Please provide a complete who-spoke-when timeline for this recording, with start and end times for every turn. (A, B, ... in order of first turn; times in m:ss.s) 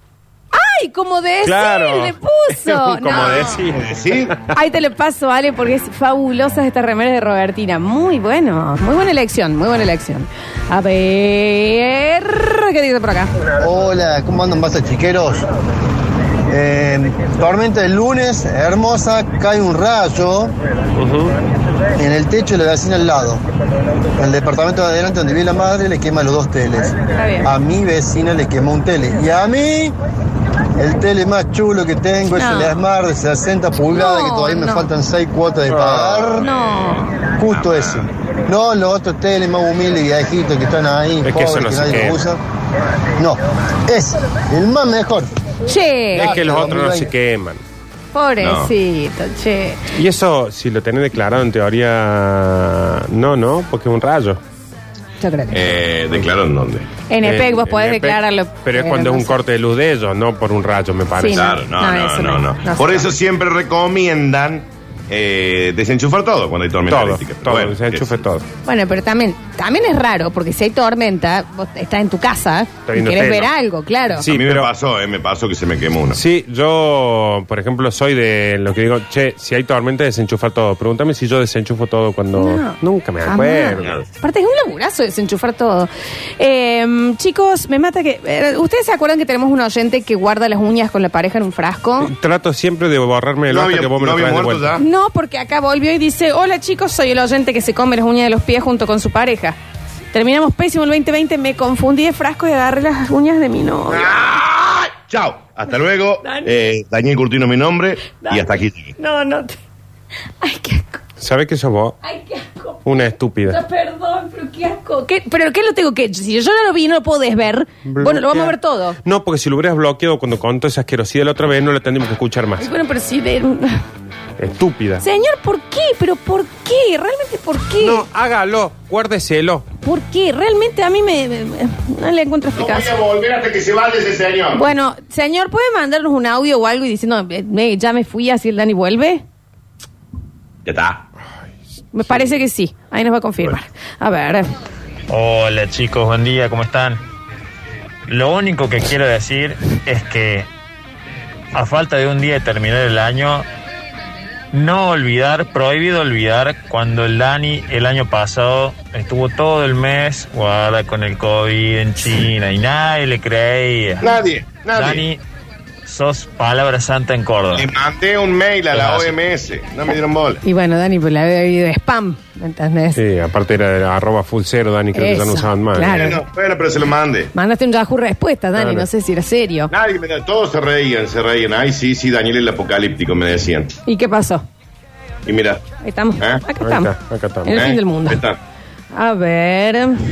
0:00.5-0:03.6 A
0:01.4-0:04.5 B
0:03.2-0:04.3 C
0:04.5-0:13.3 A
0:13.6-0:15.4 D
0:16.5-0:20.5 D
0:21.0-0:21.3 B
0:22.0-0:23.4 D
0:24.2-0:29.9 D
0:27.2-0:27.5 A
0:30.8-0:36.5 D
0:32.3-0:32.8 A
0:33.8-0:34.9 A
0:35.7-0:38.0 C
0:36.4-0:37.1 A
0:37.3-0:42.4 D
0:41.2-0:42.3 B
0:43.2-0:45.3 D
0:45.6-0:46.3 A
0:46.1-0:47.6 B
0:46.1-0:47.1 D
0:48.1-0:49.8 A
0:48.4-0:48.7 C
0:49.9-0:54.4 B
0:55.2-0:55.6 A
0:55.5-0:56.9 C
0:57.1-0:59.3 A
0:57.2-1:01.6 B
1:01.2-1:03.1 A
1:01.3-1:08.2 C
1:06.9-1:08.4 B
1:08.6-1:14.3 A
1:12.9-1:13.5 B
1:14.2-1:14.7 B
1:14.2-1:16.2 C
1:16.1-1:23.9 B
1:22.4-1:32.1 A
1:23.8-1:24.0 C
1:32.0-1:34.7 B
1:33.5-1:34.8 C
1:34.8-1:39.6 A
1:40.1-1:44.3 A
1:43.9-1:48.9 C
1:46.2-1:46.5 A
1:48.1-1:49.6 A
1:50.4-1:51.0 A
1:51.2-1:52.0 B
1:52.0-1:52.8 A
1:52.8-1:53.6 B
1:53.5-1:59.0 A
1:57.8-2:02.7 B
2:02.6-2:03.8 A
2:04.4-2:05.0 B
2:05.0-2:08.0 A
2:07.8-2:09.6 B
2:09.8-2:12.9 A
2:12.6-2:14.6 C
2:14.5-2:19.2 A
2:20.6-2:21.0 C
2:21.9-2:24.5 A
2:25.1-2:27.0 E
2:28.1-2:30.5 E
2:31.5-2:33.4 E
2:34.5-2:44.0 E
2:44.0-2:45.1 C
2:44.7-2:45.2 E
2:45.8-2:47.7 E
2:47.5-2:50.4 C
2:50.4-2:53.0 A
2:53.0-2:56.1 B
2:54.9-2:56.2 A
2:55.8-2:57.3 C
2:57.3-2:59.7 A
2:58.6-2:58.8 B
2:59.7-3:03.8 C
3:03.8-3:04.4 A
3:05.2-3:05.6 C
3:05.8-3:06.9 A
3:06.6-3:07.6 B
3:07.4-3:08.2 A
3:07.5-3:08.4 C
3:08.9-3:10.0 A